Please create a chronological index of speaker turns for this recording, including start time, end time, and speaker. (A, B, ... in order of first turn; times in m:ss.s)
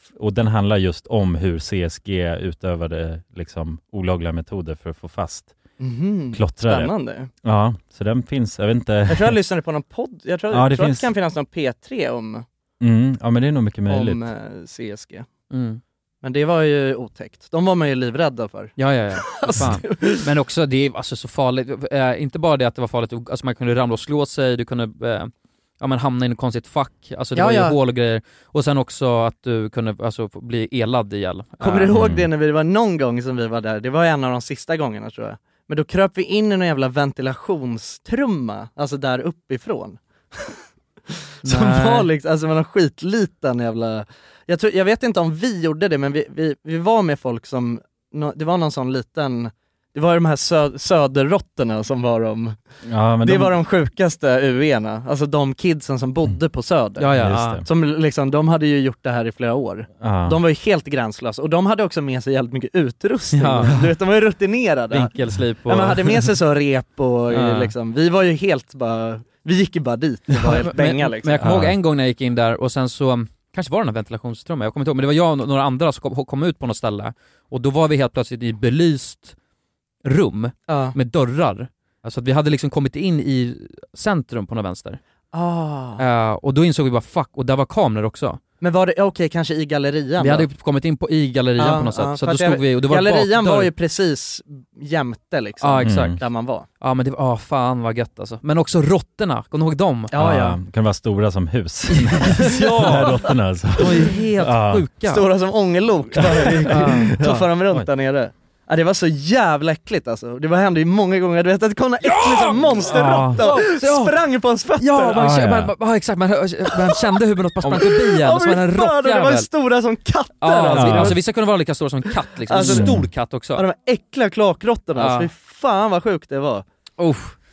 0:00.2-0:05.5 A
0:05.8-0:07.3 B
0:06.3-0:06.9 A
0:07.4-0:09.4 A
0:09.1-0:12.4 B
0:10.5-0:11.1 A
0:12.8-0:14.2 A
0:13.9-0:15.3 B
0:15.5-0:15.8 C
0:16.2-0:20.2 B
0:18.8-0:31.9 C
0:27.4-0:27.8 B
0:31.6-0:40.6 B
0:31.9-0:32.3 A
0:41.4-0:42.1 C
0:41.4-0:52.6 B
0:52.9-0:53.6 A
0:53.2-1:05.1 B
0:57.0-0:57.6 C
0:57.1-0:57.6 A
1:00.0-1:00.4 A
1:03.4-1:03.7 C
1:04.9-1:06.3 C
1:05.6-1:11.4 B
1:07.3-1:07.7 C
1:10.4-1:19.4 C
1:11.4-1:11.8 A
1:20.0-1:25.0 C
1:20.7-1:21.0 B
1:25.3-1:26.0 B
1:26.0-1:28.4 C
1:28.6-1:30.5 B
1:30.2-1:33.7 C
1:31.6-1:36.6 B
1:35.6-1:36.2 C
1:35.8-1:36.2 A
1:36.8-1:40.1 C
1:40.1-1:40.6 B
1:40.1-1:44.8 A
1:42.2-1:43.1 C
1:42.4-1:43.2 B
1:43.8-1:45.2 C
1:43.9-1:44.2 B
1:45.0-1:55.3 B
1:46.2-1:47.9 A
1:46.6-1:47.2 C
1:52.5-1:54.1 C
1:52.8-1:53.4 A
1:54.8-1:59.5 C
1:55.1-1:55.7 A
1:57.7-2:01.2 B
2:00.4-2:03.6 C
2:00.7-2:01.2 A
2:02.4-2:06.6 B
2:02.6-2:03.1 A
2:05.0-2:05.3 C
2:07.0-2:07.4 C